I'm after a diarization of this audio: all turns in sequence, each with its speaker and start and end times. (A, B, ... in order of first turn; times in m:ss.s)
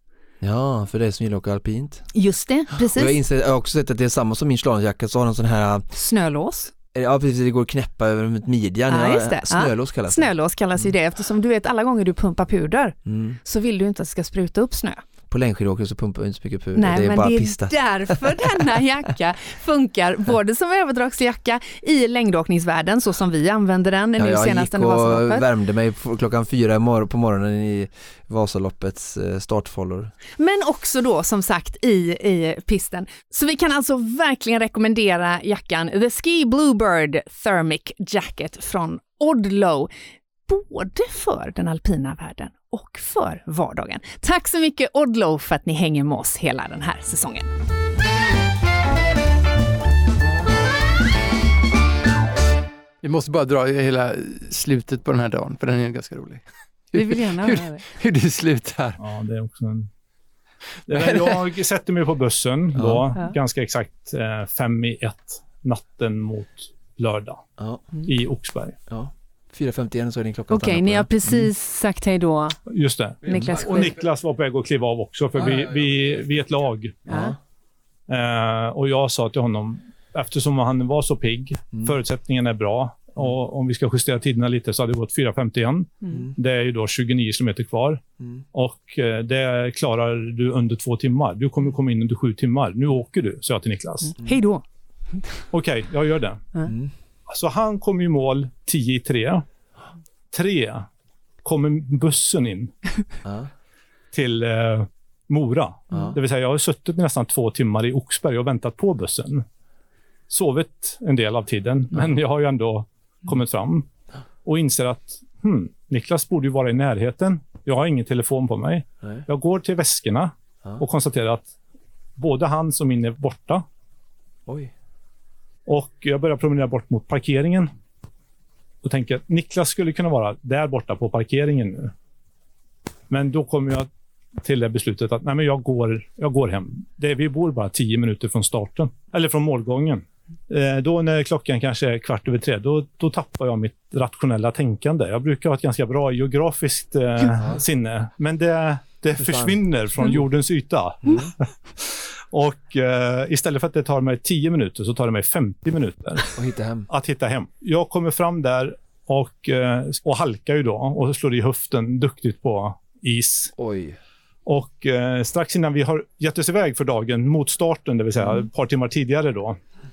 0:00.4-0:02.0 A
0:02.1-0:03.2 B
0:02.9-0:05.9 A
0:05.9-0:06.7 B
0:06.9-0:10.3 A
0:08.9-0:15.0 B
0:13.0-0:13.4 A
0:15.3-0:18.4 A
0:16.7-0:25.5 B
0:24.2-0:30.1 A
0:30.4-0:39.9 B
0:40.5-0:47.5 B
0:53.0-0:59.0 C
0:56.9-0:57.8 B
0:59.0-0:59.9 D
1:00.8-1:07.4 D
1:02.8-1:03.1 A
1:07.6-1:07.8 A
1:08.0-1:08.8 D
1:08.9-1:11.5 A
1:10.5-1:12.6 B
1:12.7-1:17.0 D
1:13.2-1:13.9 B
1:17.1-1:17.4 A
1:17.1-1:17.3 B
1:18.1-1:28.0 D
1:28.5-1:34.1 D
1:34.1-1:34.6 B
1:35.5-1:36.5 D
1:37.3-1:39.4 D
1:40.3-1:40.9 D
1:41.4-1:42.7 D
1:44.1-1:49.4 D
1:45.9-1:46.2 A
1:50.3-1:53.9 D
1:54.4-2:01.5 D
2:02.2-2:03.6 D
2:04.4-2:04.7 A
2:05.6-2:07.7 D
2:08.8-2:11.9 D
2:13.1-2:36.4 D
2:27.3-2:27.6 A
2:29.2-2:29.6 A
2:31.0-2:31.3 A
2:36.4-2:36.9 A
2:36.9-2:43.5 D
2:43.6-2:44.0 A
2:44.4-2:49.6 D